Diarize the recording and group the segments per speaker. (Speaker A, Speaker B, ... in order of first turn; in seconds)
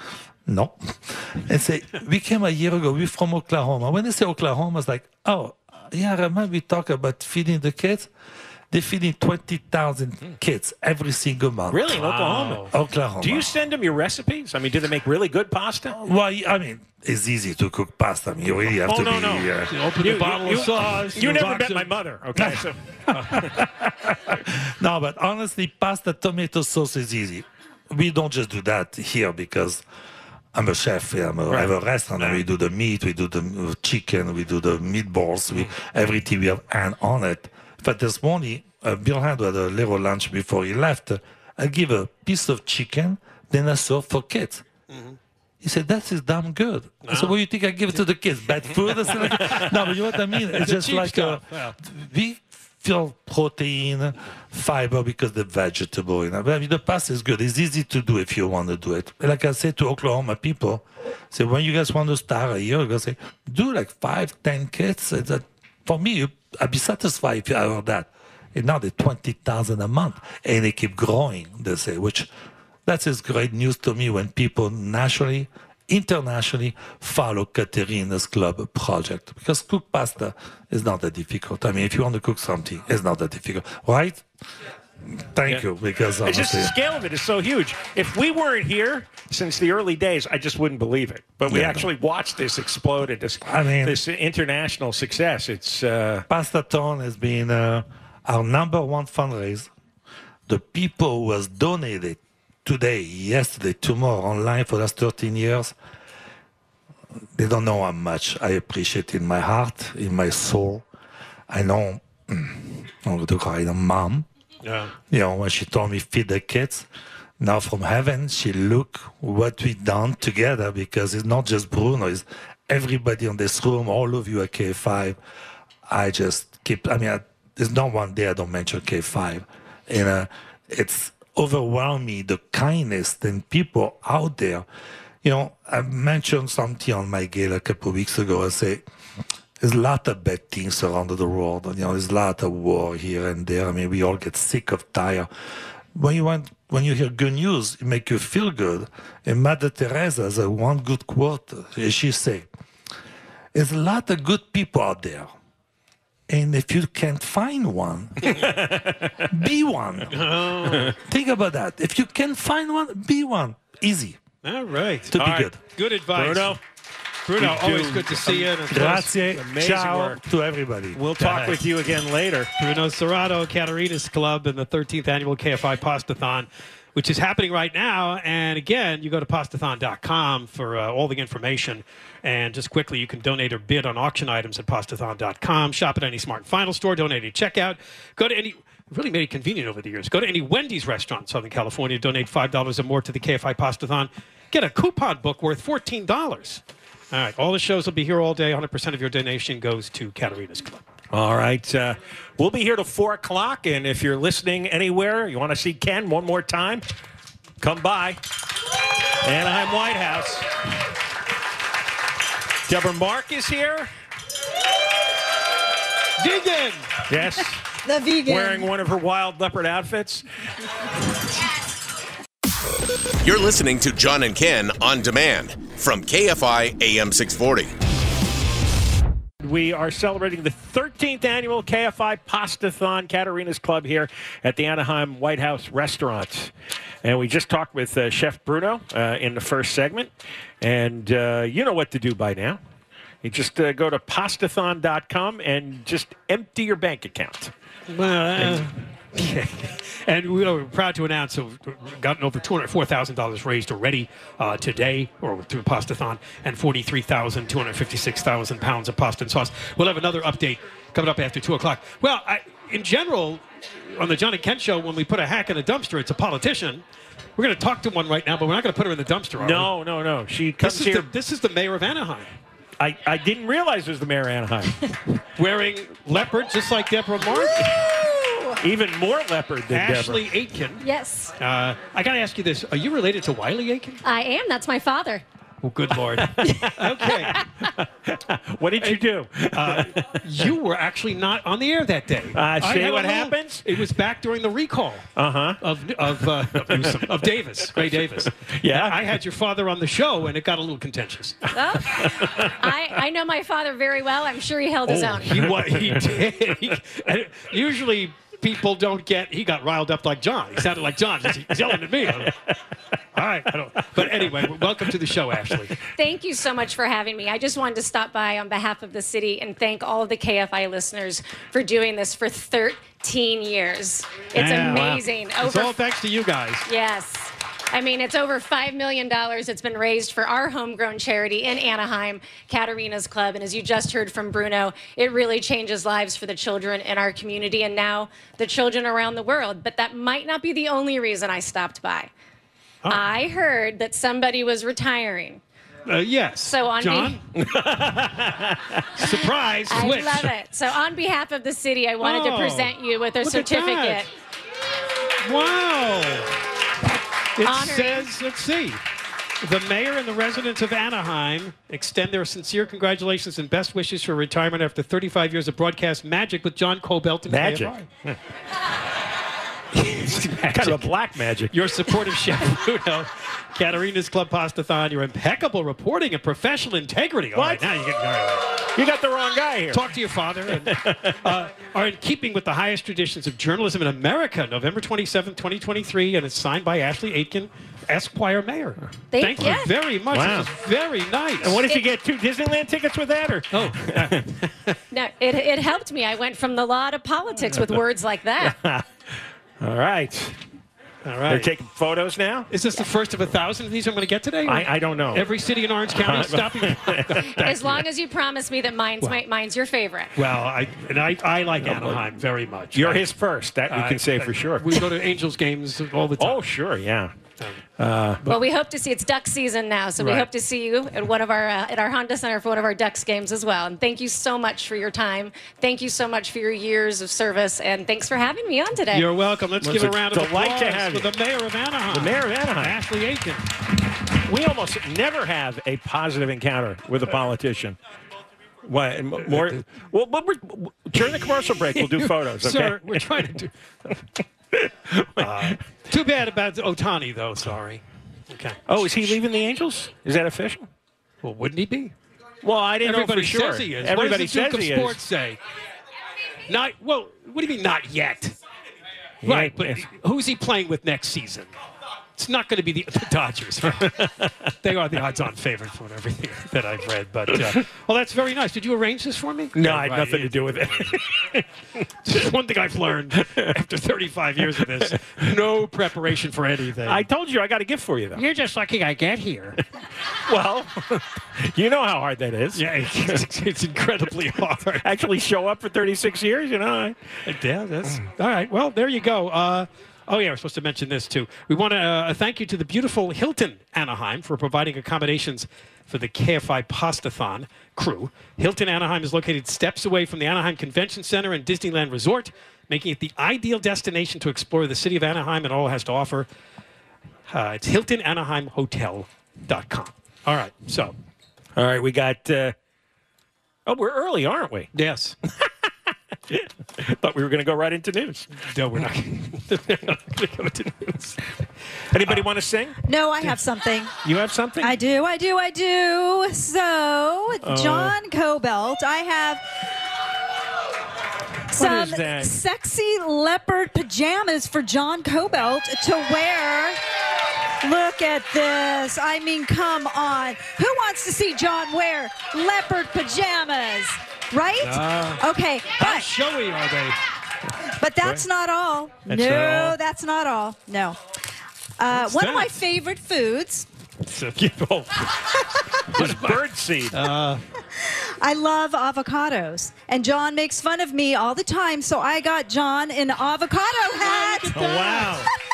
Speaker A: 0.5-8.1, 8.7-12.0, 12.7-13.5, 15.9-19.7, 22.4-29.8, 30.5-44.6, 45.6-72.3, 72.8-84.2, 85.1-86.7, 91.5-91.9, 93.4-94.0, 96.3-99.7, 100.5-105.7, 107.3-110.8, 111.5-114.2, 115.1-116.9, 117.4-125.2, 125.9-134.7, 135.2-138.8, 139.6-145.3, 145.9-152.5, 153.5-155.3, 156.3-158.4, 159.3-160.1, 160.9-164.2, 165.1-165.6, 168.7-171.6
Speaker B: 11.7-12.7, 13.2-15.9, 18.8-23.5, 31.5-32.4, 86.2-96.2, 158.3-159.2, 165.2-165.5, 166.1-166.6, 167.4-168.5, 169.2-170.2, 170.9-172.5, 201.1-206.8, 207.6-208.2, 209.2-210.5, 212.7-213.9, 217.1-217.6, 218.2-220.2, 229.4-236.5, 237.0-242.6, 243.2-247.5, 248.4-248.7, 269.4-271.1, 272.8-274.7, 278.6-280.3, 286.2-290.2, 292.3-293.7, 295.1-295.6, 296.5-297.1, 297.7-299.0, 301.9-302.5, 305.6-306.0, 314.0-314.6, 347.3-348.8, 367.3-368.2, 370.3-371.5, 377.3-377.7, 378.7-379.9, 380.5-381.2, 390.1-390.5, 391.4-394.3, 398.4-398.8, 399.6-400.4, 401.3-402.5, 404.4-405.3, 405.9-407.8, 411.6-412.0, 412.7-414.8, 416.2-417.2, 417.8-418.3, 429.6-431.1, 431.9-432.8, 434.2-437.8, 438.6-443.1, 444.5-445.6, 448.7-450.7, 452.4-455.0, 459.2-459.8, 463.9-464.5, 469.5-471.1, 473.1-473.5, 474.6-475.1, 476.8-478.3, 480.3-483.2, 484.8-487.0, 511.6-512.5, 513.6-514.7, 516.3-518.3, 521.9-522.8, 524.0-524.8, 527.4-528.0, 531.5-532.3, 549.1-549.7, 554.3-555.0, 555.9-557.0, 564.5-565.3
Speaker C: 12.0-12.7, 19.7-21.9, 44.9-45.2, 47.0-47.3, 49.0-49.6, 50.5-51.7, 114.6-114.9, 160.1-160.9, 164.4-166.6, 167.3-169.1, 172.6-200.8, 216.2-216.9, 247.9-266.8, 267.4-269.7, 270.6-272.3, 275.4-277.7, 279.7-280.8, 281.4-284.0, 285.6-287.4, 289.5-295.1, 295.6-301.4, 304.9-312.3, 313.1-315.8, 324.3-326.7, 345.9-347.2, 349.0-350.3, 352.0-354.0, 355.2-356.3, 357.4-358.8, 359.4-367.8, 369.7-370.9, 371.5-378.4, 379.7-391.6, 393.5-394.2, 401.0-401.5, 402.5-407.8, 410.1-413.0, 413.7-416.4, 420.0-420.3, 428.9-433.4, 441.8-443.5, 445.2-448.6, 451.2-451.9, 452.8-455.4, 456.5-458.4, 459.2-461.5, 462.1-463.9, 464.6-471.0, 472.1-477.0, 478.2-479.5, 482.5-484.8, 487.2-506.3, 507.3-510.9, 514.7-515.1, 518.5-521.1, 544.6-545.2, 545.8-547.0, 549.2-549.6, 551.9-552.5, 554.1-554.4, 556.0-557.4, 564.1-564.8
Speaker D: 217.8-218.7, 522.8-523.9, 524.6-529.4, 531.5-536.8, 537.6-546.1, 547.8-551.0, 551.8-553.7, 557.8-565.2
Speaker E: 223.2-227.7
Speaker F: 280.8-281.3, 284.0-285.2, 301.5-305.5, 315.9-325.8, 326.7-342.1, 342.9-345.4, 346.4-347.2, 349.7-354.1, 357.4-358.1, 389.1-389.8, 394.9-398.6, 407.4-410.1, 418.2-429.1